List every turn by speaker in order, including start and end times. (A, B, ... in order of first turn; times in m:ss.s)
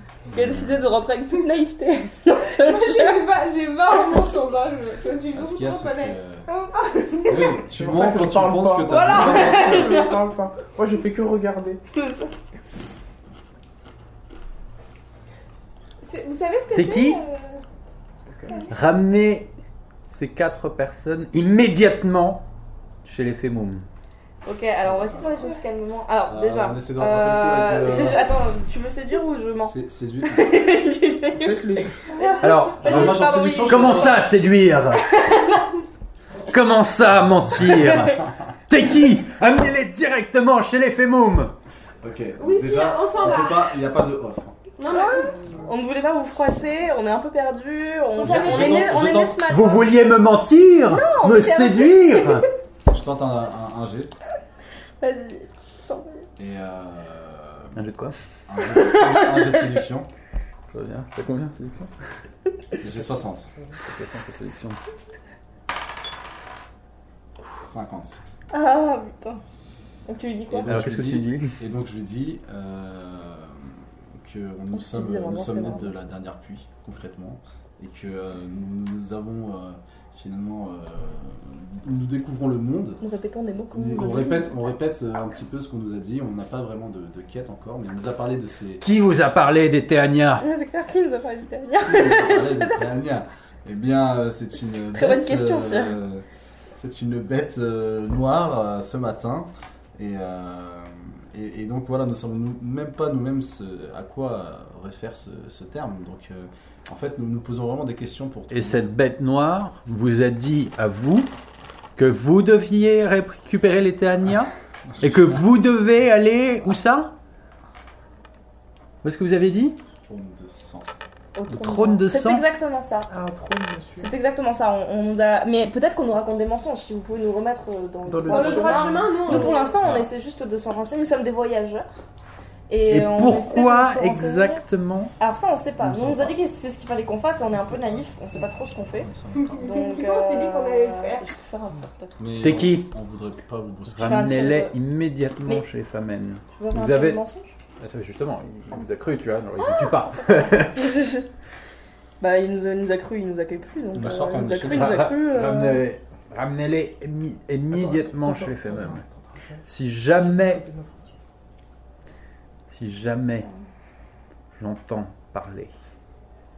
0:00.3-0:00.9 A
0:00.3-0:03.3 B
0:02.5-0:07.7 C
0:05.3-0:06.5 A
0:07.2-0:10.0 A
0:07.7-0:11.8 D
0:09.1-0:10.1 C
0:09.1-0:10.1 B
0:12.0-0:12.3 B
0:16.0-0:17.6 C
0:16.7-0:17.2 E
0:18.3-0:18.6 D
0:18.5-0:18.7 C
0:18.7-0:19.5 E
0:20.1-0:22.4 E
0:23.0-0:23.9 E
0:24.4-0:34.2 B
0:24.9-0:25.4 A
0:26.3-0:28.3 A
0:29.6-0:30.6 A
0:31.3-0:32.0 D
0:32.1-0:32.7 C
0:32.4-0:35.0 E
0:32.8-0:34.3 A
0:35.0-0:35.7 B
0:36.5-0:41.5 E
0:37.7-0:38.3 A
0:37.9-0:38.2 B
0:42.0-0:44.6 A
0:42.4-0:43.8 C
0:44.8-0:45.4 C
0:44.9-0:50.0 B
0:48.2-0:49.0 C
0:48.2-0:49.4 A
0:49.4-0:52.5 E
0:50.9-0:52.5 B
0:52.9-0:54.1 A
0:55.0-0:56.3 B
0:56.4-0:57.8 A
0:57.8-0:58.2 E
0:58.5-1:00.1 A
0:58.6-0:59.8 B
1:00.7-1:01.9 E
1:02.8-1:03.5 A
1:03.8-1:04.8 E
1:07.6-1:08.2 A
1:08.5-1:09.4 B
1:10.1-1:10.8 B
1:10.5-1:23.0 A
1:10.7-1:11.6 E
1:14.7-1:15.9 B
1:23.0-1:24.7 B
1:23.7-1:28.8 A
1:28.8-1:30.4 E
1:30.4-1:32.8 B
1:31.8-1:36.2 A
1:34.9-1:36.0 B
1:36.8-1:48.9 A
1:48.5-1:51.3 E
1:52.0-1:57.1 E
1:54.8-1:55.4 A
1:59.0-1:59.8 E
1:59.8-2:00.9 A
2:01.4-2:03.1 B
2:01.5-2:02.4 E
2:03.1-2:04.1 D
2:04.0-2:11.9 B
2:08.1-2:09.0 D
2:08.3-2:09.7 C
2:09.3-2:10.1 A
2:12.7-2:14.6 B
2:12.9-2:15.1 E
2:15.2-2:22.2 B
2:15.8-2:16.4 A
2:19.0-2:19.8 A
2:19.3-2:21.3 C
2:22.2-2:24.5 A
2:22.4-2:22.9 E
2:23.9-2:27.2 E
2:24.0-2:24.8 B
2:26.6-2:27.6 B
2:27.8-2:30.9 E
2:29.6-2:31.3 B
2:32.2-2:35.8 B
2:33.9-2:35.0 A
2:34.7-2:39.0 E
2:37.7-2:39.7 D
2:39.6-2:40.6 E
2:40.2-2:41.2 D
2:42.7-2:43.5 E
2:44.6-2:45.7 E